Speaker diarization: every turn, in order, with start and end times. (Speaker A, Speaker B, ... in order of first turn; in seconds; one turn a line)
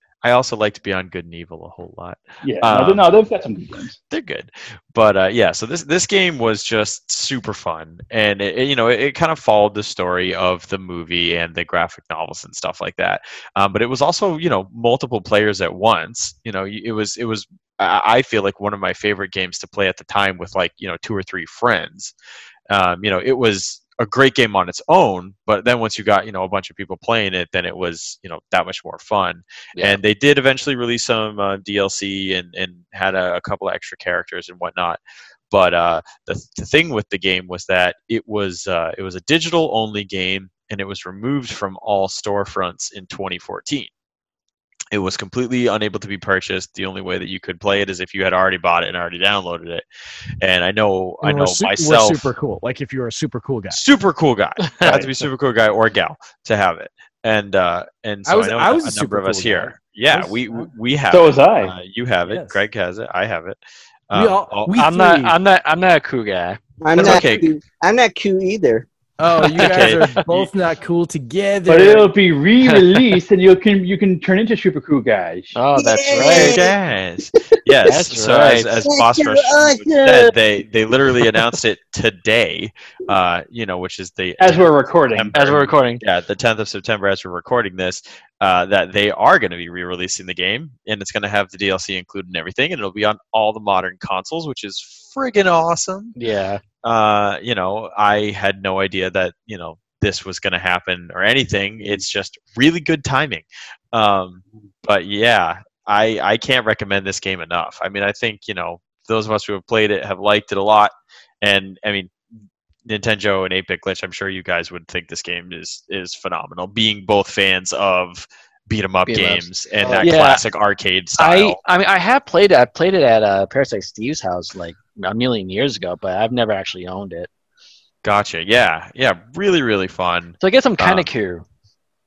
Speaker A: 0.2-3.1
Speaker B: 2.4-4.0
Speaker A: 4.1-22.1
Speaker A: 22.7-43.9
Speaker C: 29.8-30.0
Speaker A: 44.9-49.8
Speaker A: 50.4-52.3
Speaker D: 51.2-53.8
Speaker A: 53.7-64.8
Speaker D: 58.3-60.7
Speaker B: 61.1-61.7
Speaker D: 62.3-62.6
Speaker D: 64.1-65.3
Speaker C: 64.8-66.6
Speaker E: 66.8-68.9
Speaker A: 67.0-67.5
Speaker D: 69.2-72.1
Speaker C: 69.5-70.0
Speaker A: 69.7-70.5
Speaker B: 71.7-75.6
Speaker C: 75.5-76.6
Speaker E: 75.7-76.7
Speaker A: 76.2-96.2
Speaker C: 77.9-78.9
Speaker E: 78.9-80.3
Speaker B: 84.4-85.5
Speaker C: 85.3-86.0
Speaker C: 96.2-96.6
Speaker A: 96.8-112.1
Speaker A: 112.9-121.6
Speaker C: 119.1-120.4
Speaker E: 119.8-120.1
Speaker C: 121.2-127.3
Speaker A: 128.0-131.1
Speaker C: 130.4-131.4